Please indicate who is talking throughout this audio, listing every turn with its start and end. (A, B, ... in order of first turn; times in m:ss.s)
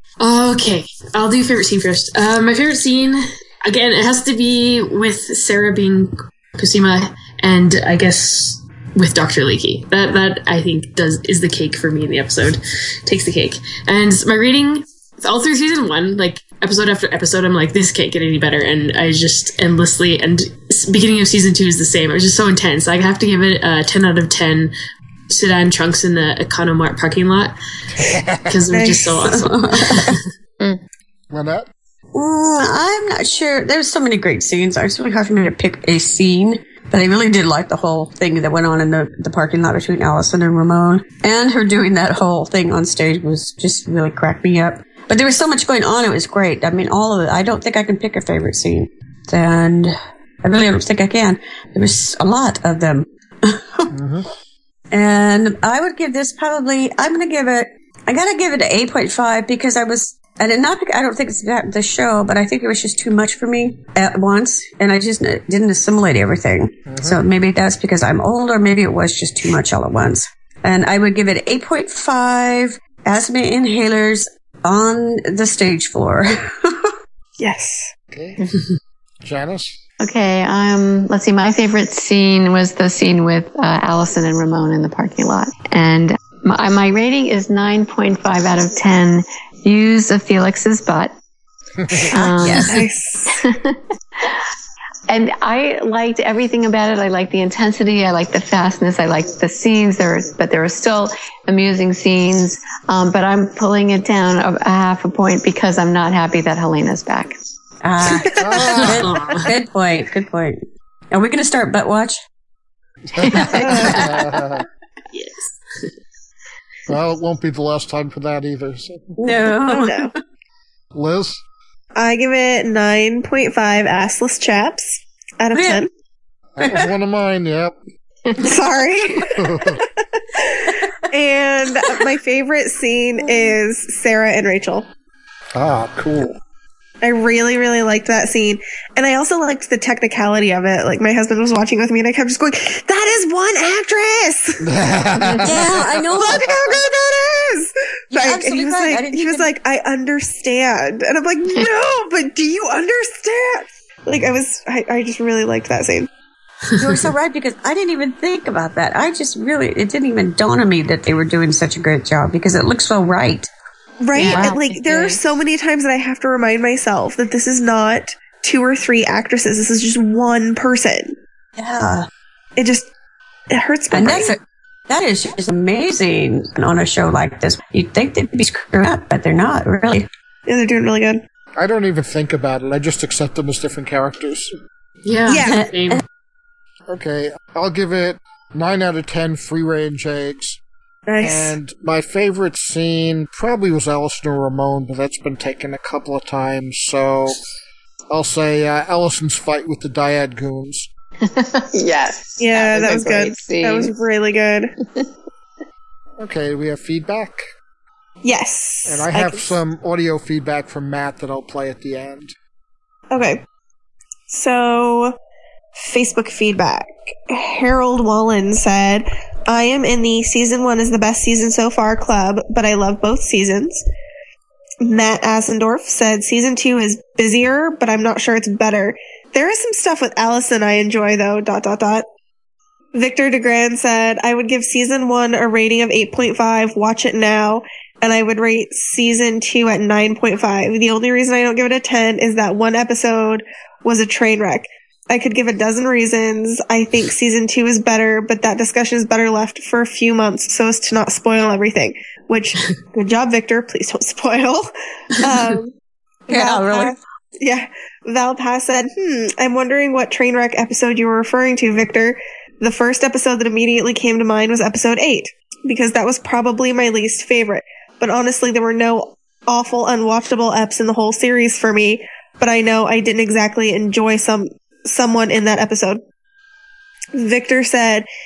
0:00.2-0:24.7 A
0:25.3-0:27.5 A
0:28.0-0:28.5 B
0:28.4-0:30.2 A
0:28.7-0:29.2 C
0:29.4-0:30.1 D
0:31.3-0:31.7 B
0:32.1-0:53.9 D
0:53.9-0:54.2 B
0:54.9-1:16.9 D
1:06.9-1:07.2 B
1:17.4-1:17.9 C
1:18.1-1:18.4 B
1:19.2-1:19.8 B
1:20.0-1:31.1 E
1:31.8-1:32.1 B
1:32.1-1:32.8 E
1:32.4-1:32.8 D
1:32.6-1:33.3 C
1:33.3-1:34.4 E
1:35.1-1:47.3 E
1:47.8-1:52.2 D
1:48.4-1:49.1 B
1:48.7-1:49.5 A
1:53.1-1:54.6 B
1:53.6-1:54.2 C
1:55.1-1:55.5 A
1:56.9-1:59.1 B
1:59.2-2:00.1 D
1:59.7-2:00.1 C
2:00.9-2:01.4 B
2:02.0-2:05.9 C
2:05.5-2:05.8 D
2:06.6-2:07.8 B
2:06.6-2:06.8 D
2:08.4-2:14.9 C
2:09.3-2:09.8 B
2:15.5-2:16.4 B
2:17.0-2:24.6 C
2:24.6-2:26.4 B
2:25.4-2:26.8 D
2:26.1-2:36.1 C
2:28.1-2:29.5 D
2:36.8-2:43.5 D
2:44.0-2:51.2 C
2:44.1-2:45.2 D
2:44.2-2:44.6 E
2:51.6-2:52.1 D
2:52.6-2:52.9 C
2:53.5-2:54.4 C
2:53.9-3:00.1 D
3:00.5-3:01.2 C
3:01.6-3:04.5 B
3:05.0-3:06.0 A
3:05.2-3:05.6 C
3:06.9-3:10.6 B
3:11.1-3:11.6 C
3:11.2-3:17.4 B
3:18.1-3:20.9 B
3:21.2-3:23.9 E
3:22.4-3:24.7 C
3:26.2-3:27.5 B
3:28.2-3:29.5 C
3:28.8-3:32.3 B
3:33.1-3:33.4 C
3:34.3-3:35.1 C
3:35.7-3:43.8 C
3:44.8-3:52.0 C
3:52.9-4:15.7 C
4:16.3-4:36.0 C
4:16.3-4:16.9 D
4:37.1-4:38.1 C